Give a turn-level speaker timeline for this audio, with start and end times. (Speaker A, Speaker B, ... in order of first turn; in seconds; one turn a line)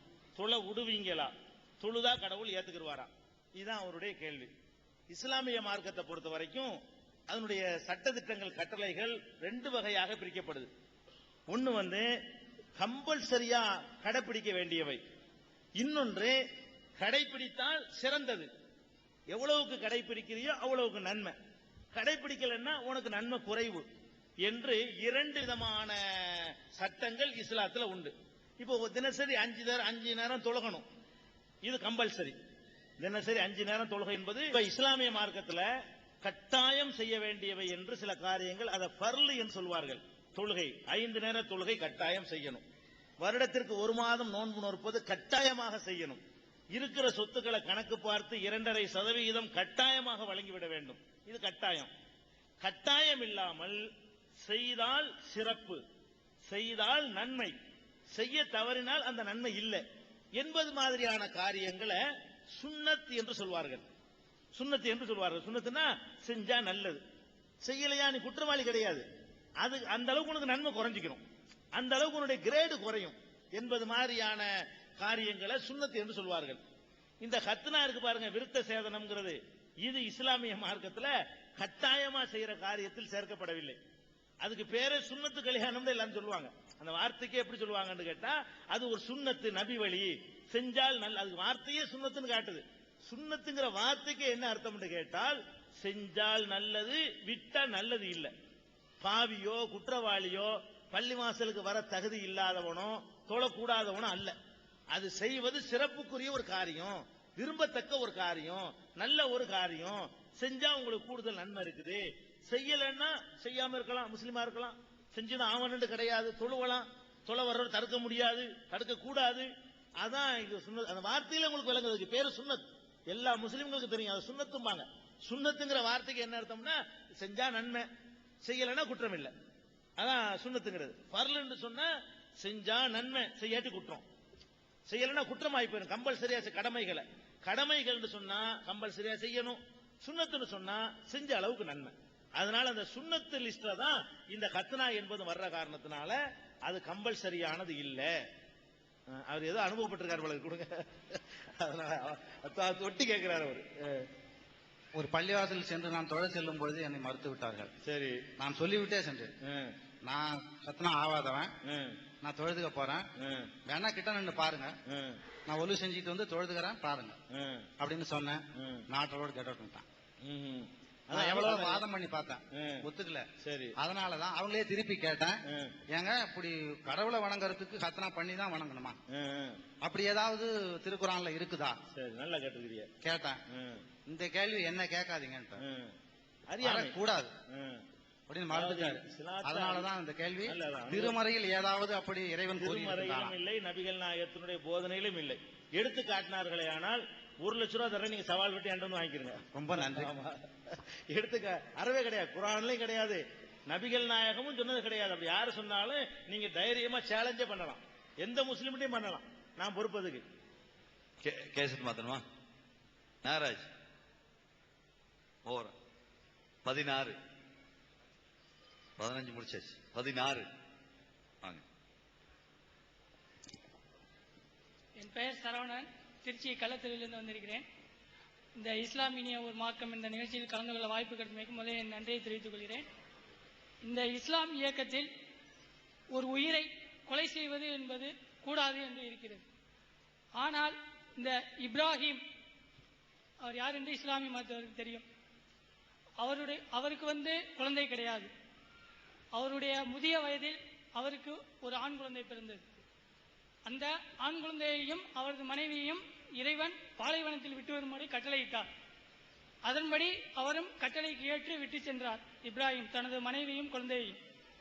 Speaker A: 0.4-4.5
Speaker A: 5.1-6.8
Speaker A: 7.3-10.7
Speaker A: 11.5-12.1
Speaker A: 12.8-15.0
Speaker A: 15.8-16.4
Speaker A: 17.0-18.5
Speaker A: 19.3-21.4
Speaker A: 21.9-23.9
Speaker A: 24.4-30.9
Speaker A: 31.6-32.4
Speaker A: 33.0-35.6
Speaker A: 36.2-42.6
Speaker A: 43.2-46.2
Speaker A: 46.7-51.9
Speaker A: 52.6-53.8
Speaker A: 54.4-55.8
Speaker A: 56.5-57.5
Speaker A: 58.1-59.8
Speaker A: 60.4-62.0
Speaker A: 62.5-63.8
Speaker A: 64.5-67.0
Speaker A: 67.6-69.0
Speaker A: 69.6-71.2
Speaker A: 71.8-76.6
Speaker A: 77.2-83.8
Speaker A: 84.4-98.3
Speaker A: 99.0-104.3
Speaker A: 104.9-119.5
Speaker A: 120.0-127.8
Speaker A: 128.4-129.3
Speaker A: 130.0-134.0
Speaker A: 134.9-148.1
Speaker A: 149.1-154.1
Speaker B: 154.9-157.7
Speaker A: 157.8-158.2
Speaker B: 158.4-159.3
Speaker A: 159.4-159.7
Speaker B: 160.0-161.5
Speaker A: 161.7-162.0
Speaker B: 162.2-163.0
Speaker A: 163.2-163.5
Speaker B: 163.7-164.7
Speaker A: 164.9-165.2
Speaker B: 165.5-167.2
Speaker A: 167.3-167.7
Speaker B: 167.8-169.8
Speaker A: 168.6-168.9
Speaker A: 170.2-171.8
Speaker B: 171.1-173.3
Speaker A: 172.5-172.9
Speaker A: 173.4-173.8
Speaker B: 173.8-175.4
Speaker A: 175.5-175.8
Speaker B: 175.9-179.0
Speaker A: 179.1-179.6
Speaker B: 179.8-181.8
Speaker A: 181.9-182.9
Speaker B: 183.0-183.4
Speaker A: 183.5-183.8
Speaker B: 184.1-185.6
Speaker A: 185.6-185.9
Speaker A: 186.5-187.0
Speaker B: 186.6-187.3
Speaker A: 187.5-187.8
Speaker B: 188.3-193.3
Speaker A: 188.5-189.9
Speaker A: 190.5-191.2
Speaker A: 192.6-210.2
Speaker B: 199.5-200.1
Speaker C: 211.2-212.2
Speaker C: 213.2-213.7
Speaker C: 215.5-215.7
Speaker C: 216.7-217.2
Speaker C: 219.0-220.5
Speaker D: 225.0-227.7
Speaker D: 228.6-232.9
Speaker D: 233.8-235.1
Speaker D: 236.1-239.4
Speaker D: 240.4-242.2
Speaker D: 243.4-245.1
Speaker D: 246.2-248.3
Speaker D: 249.4-252.6
Speaker D: 253.7-258.7
Speaker D: 259.7-264.2